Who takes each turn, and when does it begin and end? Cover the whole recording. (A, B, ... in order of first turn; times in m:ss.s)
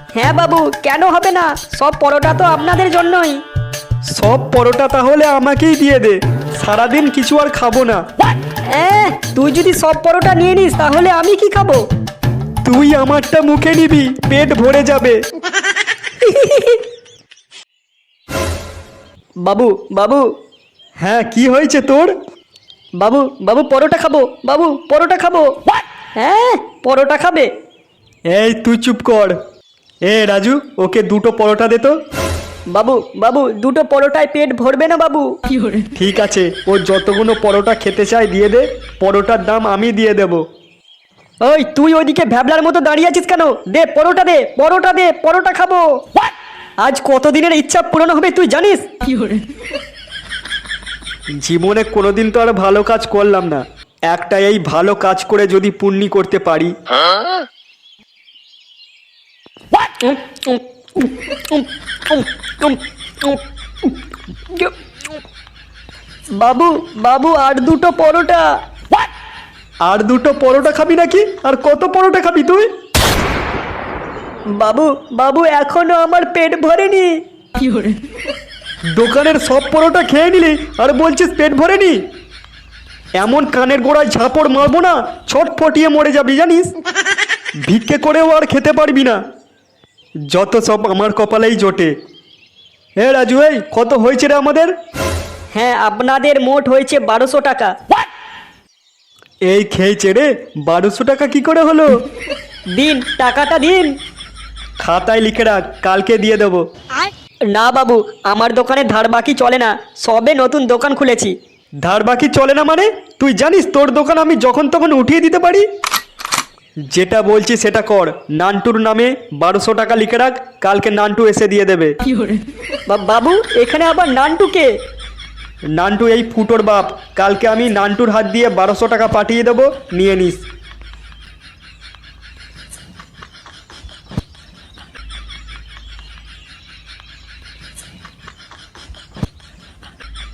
0:00.2-0:03.4 A
0:04.1-0:08.0 B
0:08.8-0:11.8 A
0:12.6-0:15.2 B
0:16.2-0:16.8 A
0:19.4-0:20.2 A
0:21.0-0:22.1 B
0:23.0-0:25.5 A
0:26.2-0:27.5 A
0:28.3-0:29.4 B
0:30.1-0:32.0 B
0:32.7-0:35.3 A
0:36.0-0:40.4 B
0:41.4-0:45.9 A
0:46.8-0:48.8 A
0:51.4-0:56.7 B
1:00.0-1:03.9 A
1:06.4-1:08.5 A
1:09.8-1:12.7 B
1:14.6-1:17.2 A
1:18.9-1:22.0 B
1:23.2-1:26.7 B
1:27.6-1:29.2 B
1:30.3-1:31.9 B
1:33.0-1:34.7 B
1:35.6-1:37.7 A
1:39.5-1:41.9 B
1:42.8-1:43.9 A
1:44.8-1:46.6 B
1:47.5-1:51.3 A
1:51.8-1:55.7 B
1:56.9-2:02.0 B
2:02.9-2:04.7 A
2:05.8-2:10.4 B